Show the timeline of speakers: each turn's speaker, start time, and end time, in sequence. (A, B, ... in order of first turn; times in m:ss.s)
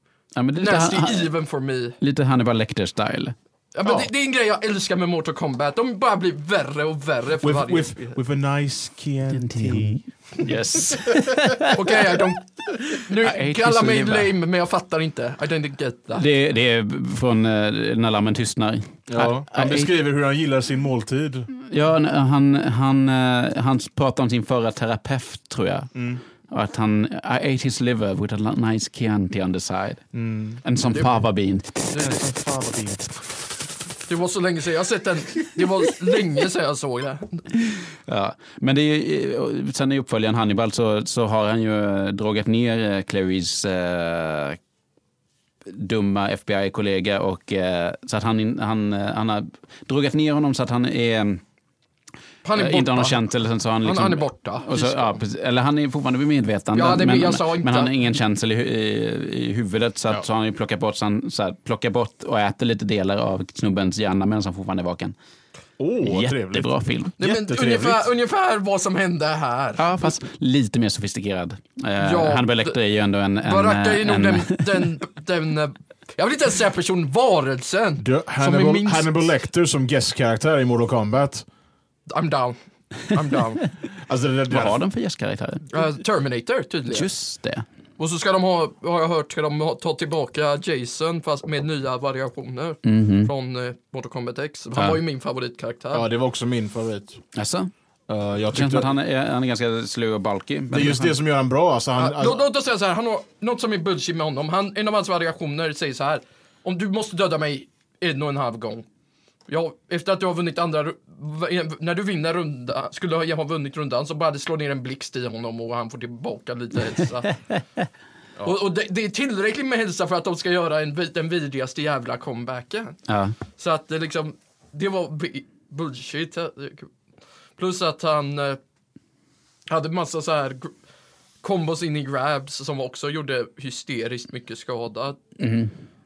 0:00.4-0:01.4 A
0:00.6-0:02.0 B
0:02.0-0:03.4 A
0:03.7-0:08.2 B
0:03.8-0:04.1 C
0:07.4-0:11.6 C
0:09.3-0:11.7 A
0:11.8-0:16.3 B
0:13.2-0:14.3 A
0:16.2-0:19.9 A
0:19.1-0:21.5 C
0:21.7-0:25.9 A
0:25.9-0:26.2 C
0:26.5-0:30.1 A
0:30.1-0:30.6 C
0:30.6-0:31.8 A
0:30.9-0:31.2 B
0:31.9-0:32.2 B
0:32.0-0:33.1 C
0:34.1-0:37.4 B
0:38.1-0:44.6 A
0:45.7-0:51.4 A
0:52.4-0:53.3 B
0:52.6-1:05.2 A
0:53.8-0:55.2 B
0:56.7-0:58.0 B
1:05.8-1:08.1 C
1:06.0-1:07.2 A
1:07.2-1:10.2 B
1:09.8-1:14.9 A
1:12.0-1:12.8 B
1:13.4-1:19.2 B
1:18.0-1:21.5 C
1:22.1-1:23.7 B
1:24.0-1:24.8 C
1:24.5-1:25.7 A
1:25.7-1:27.1 B
1:26.9-1:27.6 A
1:28.0-1:36.1 B
1:32.8-1:33.3 A
1:35.9-1:37.2 C
1:37.4-1:37.7 A
1:38.1-1:38.9 C
1:38.5-1:41.2 A
1:40.7-1:42.5 C
1:42.0-1:48.8 B
1:49.5-1:57.4 B
1:58.4-2:03.0 B
2:03.1-2:03.4 A
2:03.5-2:06.9 B
2:07.6-2:08.6 B
2:09.7-2:10.7 B
2:11.4-2:15.2 B
2:15.4-2:15.7 A